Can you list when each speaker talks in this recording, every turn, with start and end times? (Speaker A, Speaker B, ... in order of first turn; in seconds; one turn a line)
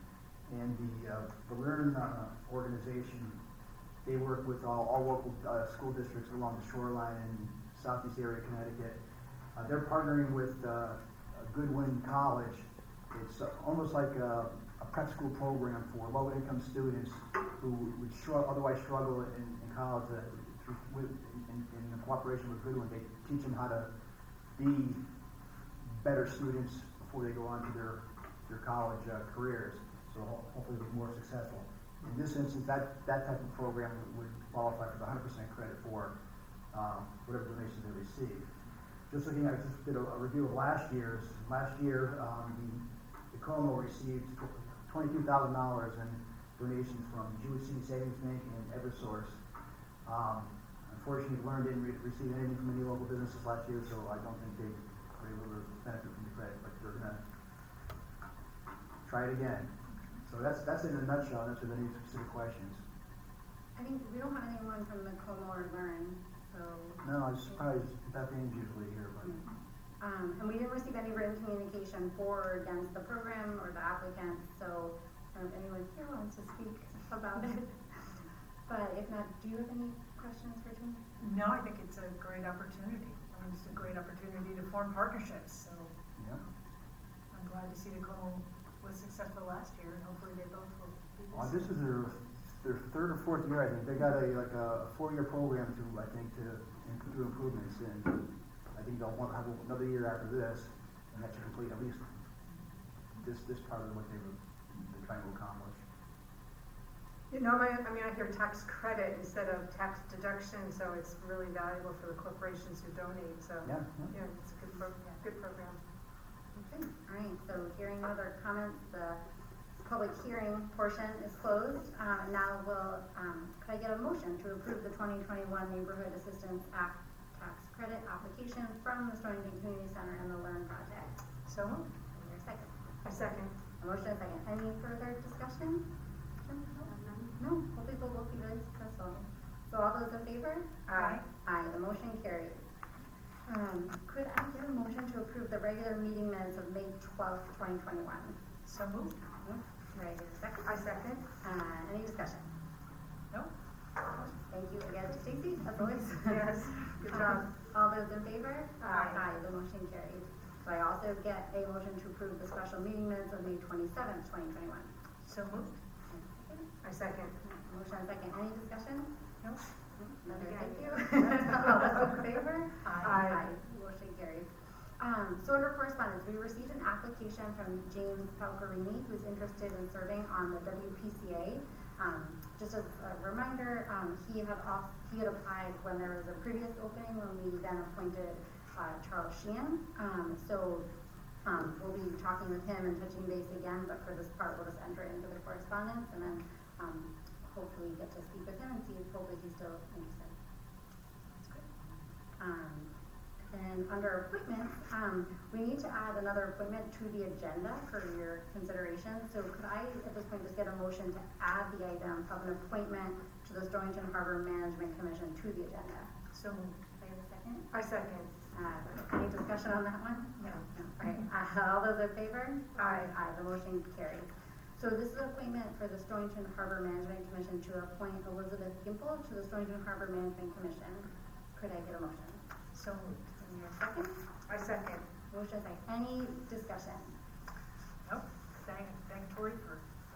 Speaker A: 0.5-3.4
Speaker A: 4.0-9.0
Speaker A: 9.5-23.9
Speaker A: 24.6-25.0
Speaker A: 25.9-36.1
Speaker A: 36.7-38.5
Speaker A: 39.1-49.4
Speaker A: 50.0-57.2
Speaker A: 59.0-62.8
Speaker B: 63.8-67.0
Speaker A: 67.0-69.4
Speaker B: 70.0-77.7
Speaker B: 78.7-81.0
Speaker C: 81.2-85.9
Speaker C: 87.3-91.7
Speaker A: 91.3-98.2
Speaker A: 98.7-102.1
Speaker A: 103.2-105.8
Speaker D: 107.3-115.8
Speaker A: 113.6-114.1
Speaker B: 116.5-119.2
Speaker B: 119.8-131.2
Speaker C: 131.4-131.9
Speaker B: 132.1-132.7
Speaker D: 133.0-133.5
Speaker B: 133.8-135.8
Speaker B: 136.4-140.9
Speaker D: 140.9-141.2
Speaker C: 141.0-141.2
Speaker B: 141.4-142.6
Speaker B: 143.5-148.4
Speaker C: 148.6-149.2
Speaker B: 149.4-150.7
Speaker D: 150.6-151.2
Speaker B: 151.4-152.4
Speaker B: 154.1-164.9
Speaker D: 156.2-157.4
Speaker D: 158.9-159.2
Speaker C: 165.2-165.8
Speaker B: 166.1-166.7
Speaker D: 166.8-167.3
Speaker B: 167.4-169.1
Speaker B: 169.9-190.8
Speaker D: 170.3-171.9
Speaker C: 172.8-173.3
Speaker D: 173.0-173.4
Speaker B: 191.4-200.3
Speaker C: 201.3-201.7
Speaker B: 202.4-216.1
Speaker C: 216.3-216.8
Speaker B: 216.9-217.7
Speaker D: 217.7-218.3
Speaker B: 218.5-232.4
Speaker C: 232.7-233.3
Speaker B: 233.4-234.2
Speaker D: 234.5-235.0
Speaker B: 235.3-237.1
Speaker C: 238.0-239.8